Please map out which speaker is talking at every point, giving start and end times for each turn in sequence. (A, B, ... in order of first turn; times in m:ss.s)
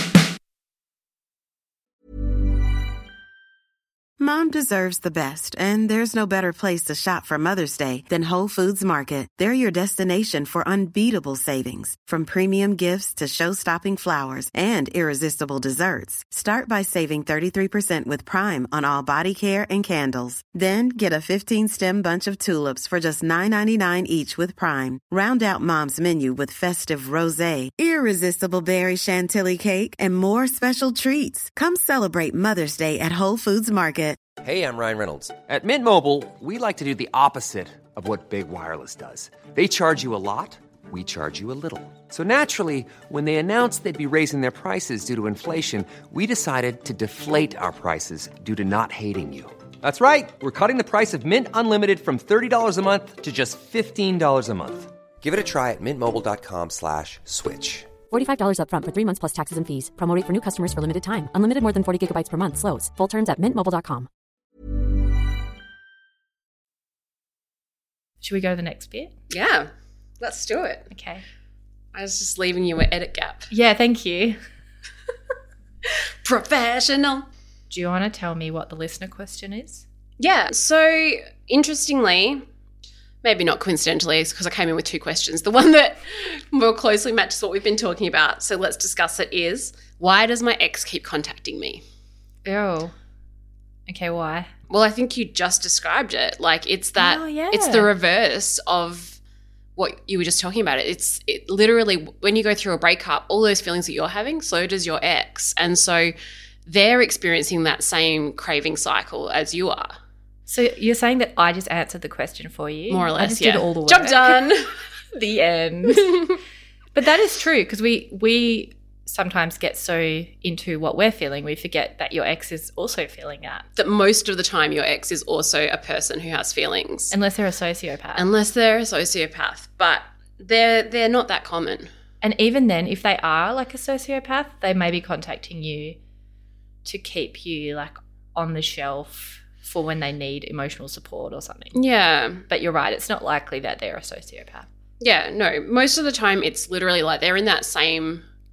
0:04.2-0:34.2 A
0:34.4-0:57.9 B
0:58.1-1:04.1 C
1:08.2-1:09.1 D
1:09.3-1:09.7 E
1:10.2-1:10.9 E
1:10.9-1:11.2 D
1:11.9-1:13.5 E
1:13.5-1:14.4 D
1:15.9-1:17.3 E
1:17.7-1:19.8 D
1:20.2-1:22.4 E
1:23.2-1:31.8 E
1:32.4-1:32.9 D
1:33.9-1:34.5 D
1:34.7-1:39.2 E
1:37.0-1:37.9 D
1:39.8-1:46.1 E
1:46.7-1:49.9 E
1:50.5-1:54.6 D
1:52.9-1:54.7 E
1:55.1-1:56.4 D
1:57.0-2:03.7 D
2:03.8-2:07.1 E
2:07.1-2:08.3 D
2:08.2-2:11.9 E
2:12.2-2:16.0 D
2:16.8-2:21.8 D
2:21.8-2:22.4 E
2:22.5-2:24.7 D
2:25.0-2:28.2 E